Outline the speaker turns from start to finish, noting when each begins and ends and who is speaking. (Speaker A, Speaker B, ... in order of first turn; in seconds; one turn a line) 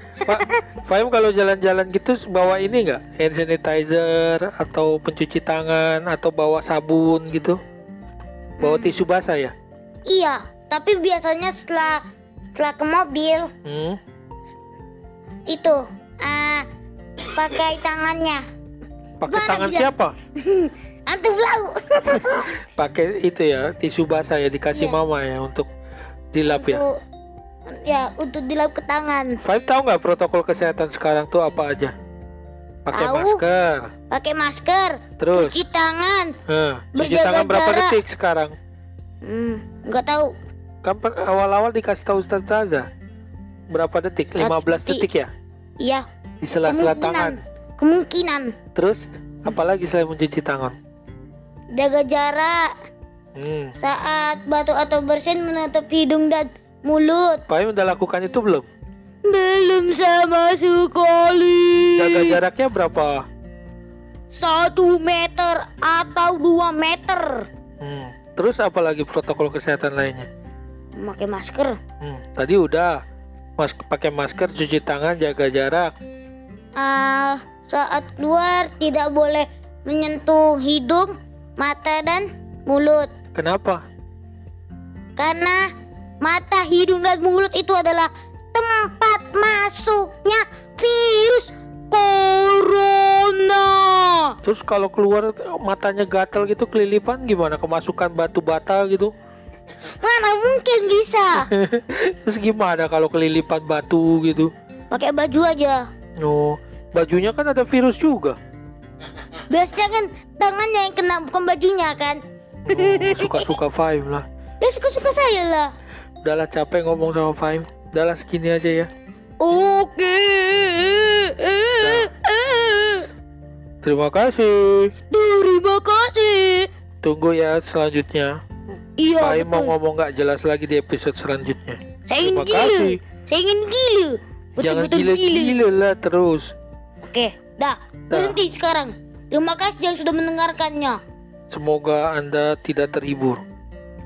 Speaker A: 0.2-0.6
Speaker B: 0.2-7.6
Speaker A: 8.6-9.0
Speaker B: 8.6-9.5
Speaker A: 10.1-12.0
Speaker A: 12.5-13.5
Speaker B: 13.6-14.0
Speaker A: 15.5-16.6
Speaker A: 17.2-18.4
Speaker B: 19.2-20.1
Speaker A: 19.3-22.5
Speaker B: 22.7-25.7
Speaker A: 24.7-25.0
Speaker B: 26.3-26.8
Speaker A: 26.5-26.9
Speaker A: 27.7-29.4
Speaker B: 29.4-31.9
Speaker B: 32.9-33.9
Speaker A: 32.9-33.4
Speaker A: 34.1-36.3
Speaker B: 35.2-35.6
Speaker B: 36.5-38.5
Speaker A: 36.9-38.0
Speaker A: 39.2-40.3
Speaker B: 40.8-42.9
Speaker B: 43.7-45.3
Speaker A: 44.4-45.0
Speaker B: 46.4-47.4
Speaker A: 46.6-48.5
Speaker B: 48.7-50.8
Speaker A: 51.7-52.7
Speaker B: 53.4-53.7
Speaker A: 53.8-57.4
Speaker B: 57.5-58.7
Speaker A: 59.3-62.4
Speaker B: 61.9-63.2
Speaker A: 64.3-67.5
Speaker B: 67.8-70.3
Speaker A: 71.0-71.8
Speaker B: 72.0-73.0
Speaker B: 73.6-75.9
Speaker A: 76.8-83.1
Speaker B: 83.3-83.8
Speaker A: 85.2-85.6
Speaker A: 86.2-94.3
Speaker B: 94.4-99.1
Speaker A: 100.0-101.5
Speaker B: 101.4-104.5
Speaker A: 104.9-105.8
Speaker B: 106.2-108.4
Speaker A: 109.5-112.2
Speaker B: 112.7-114.2
Speaker A: 112.7-113.5
Speaker A: 114.6-115.7
Speaker B: 116.2-118.9
Speaker A: 119.4-123.1
Speaker B: 121.8-122.1
Speaker B: 123.8-124.9
Speaker A: 125.1-126.7
Speaker B: 127.0-128.3
Speaker A: 129.0-129.7
Speaker B: 129.2-133.0
Speaker A: 132.1-135.6
Speaker B: 134.6-136.5
Speaker A: 137.0-141.0
Speaker B: 138.1-138.4
Speaker B: 141.5-143.4